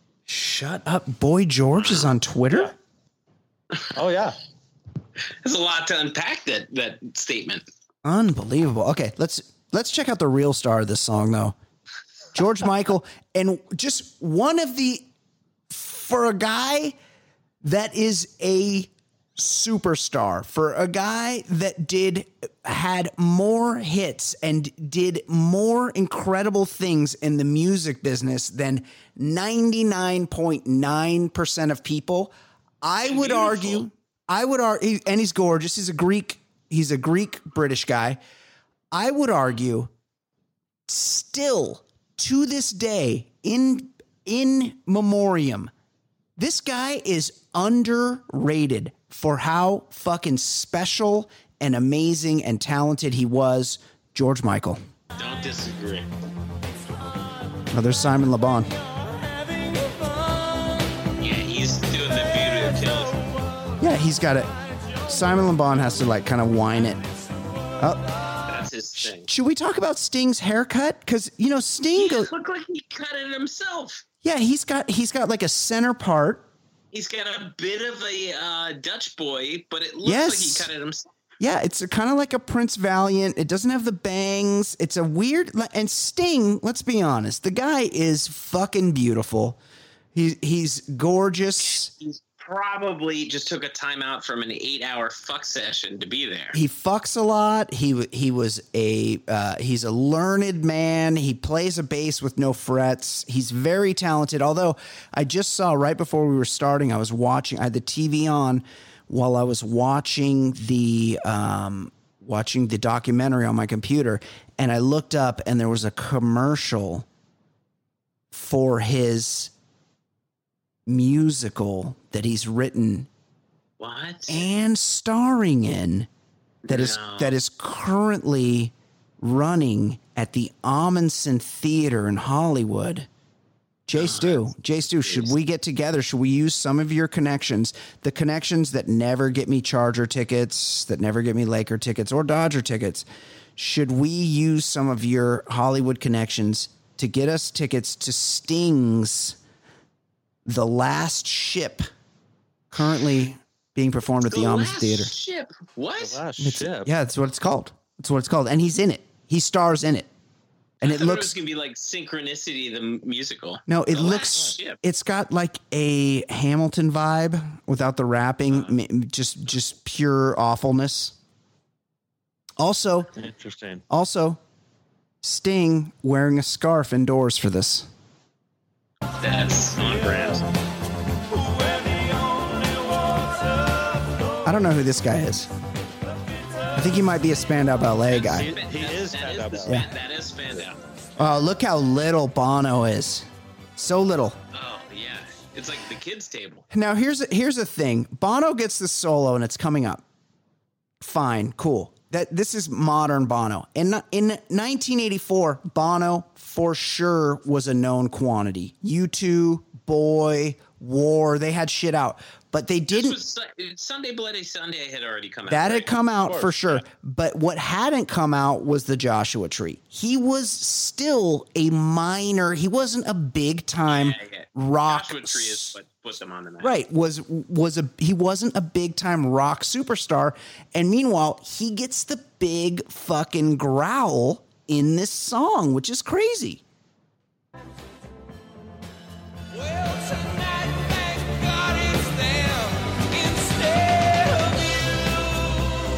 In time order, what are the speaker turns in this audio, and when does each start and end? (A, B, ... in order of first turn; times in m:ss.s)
0:00.3-0:02.8 A
0:01.8-0:02.1 B
0:04.0-0:04.4 C
0:05.4-0:07.6 B
0:08.0-0:11.6 A
0:12.3-0:15.1 A
0:15.7-0:17.0 A
0:17.6-0:38.2 A
0:33.0-0:33.9 B
0:38.9-0:39.9 A
0:40.9-0:45.7 A
0:46.4-0:54.8 A
0:55.2-0:56.1 B
0:57.7-0:58.7 A
1:01.2-1:03.2 B
1:03.8-1:04.5 A
1:05.1-1:07.0 A
1:08.5-1:09.3 B
1:09.0-1:12.3 A
1:12.0-1:14.0 B
1:14.2-1:16.5 A
1:16.9-1:21.1 B
1:20.0-1:20.7 A
1:21.4-1:29.6 A
1:30.1-1:31.9 A
1:31.6-1:36.6 B
1:36.5-1:57.1 A
1:58.3-1:59.5 A
2:00.9-2:03.1 A
2:03.8-2:04.4 B
2:04.3-2:06.1 A
2:06.6-2:07.4 B
2:06.7-2:13.1 A
2:13.9-2:23.1 A
2:13.9-2:14.4 B
2:15.0-2:15.4 B
2:23.6-2:29.4 A
2:30.5-2:31.8 A
2:32.7-2:35.1 A
2:34.3-2:36.2 B
2:36.0-2:36.9 C
2:36.4-2:40.1 A
2:40.8-2:41.4 A
2:40.8-2:44.8 B
2:43.7-2:51.2 A
2:52.6-2:53.1 A
2:53.2-2:53.8 C
2:53.9-2:54.4 A
2:55.2-2:57.9 A
2:59.2-3:00.4 B
2:59.8-3:00.4 C
3:04.4-3:05.5 A
3:06.8-3:08.5 A
3:08.1-3:10.8 B
3:08.2-3:09.8 C
3:11.2-3:14.4 A
3:14.5-3:16.6 B
3:16.7-3:20.0 A
3:21.0-3:33.2 A
3:32.9-3:35.9 B
3:35.5-3:45.8 A
3:36.2-3:36.8 C
3:43.8-3:46.8 B
3:46.6-3:56.6 A
3:59.8-4:04.6 D